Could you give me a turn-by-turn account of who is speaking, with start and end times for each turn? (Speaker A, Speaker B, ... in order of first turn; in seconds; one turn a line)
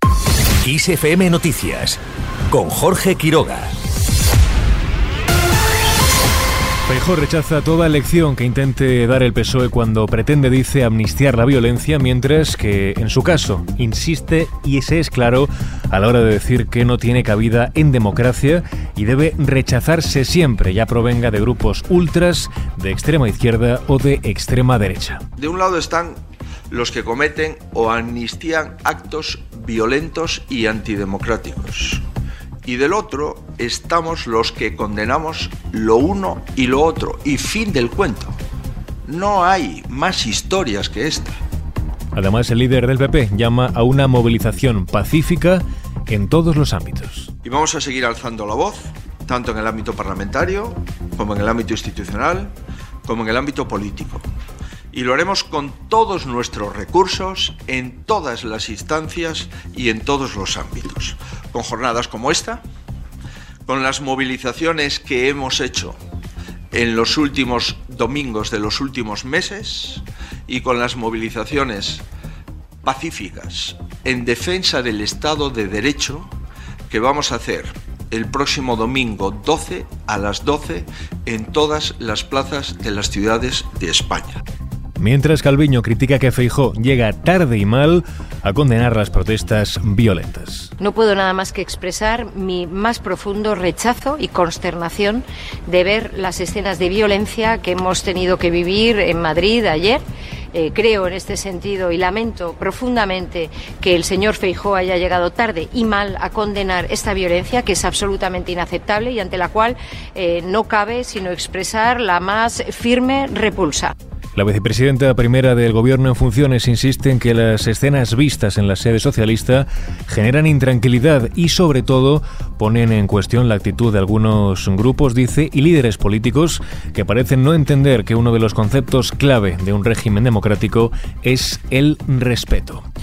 Speaker A: 0.6-2.0
Speaker A: 2.5-3.7
Speaker B: 2.6-3.3
Speaker B: 6.9-25.2
Speaker C: 25.4-32.0
Speaker C: 32.6-38.3
Speaker C: 39.0-41.4
Speaker B: 42.1-47.3
Speaker C: 47.4-52.5
Speaker C: 53.0-54.2
Speaker C: 54.9-62.6
Speaker C: 63.6-66.0
Speaker C: 66.7-72.0
Speaker C: 72.8-76.3
Speaker C: 76.9-84.4
Speaker B: 85.0-90.7
Speaker D: 90.8-113.9
Speaker B: 114.3-132.8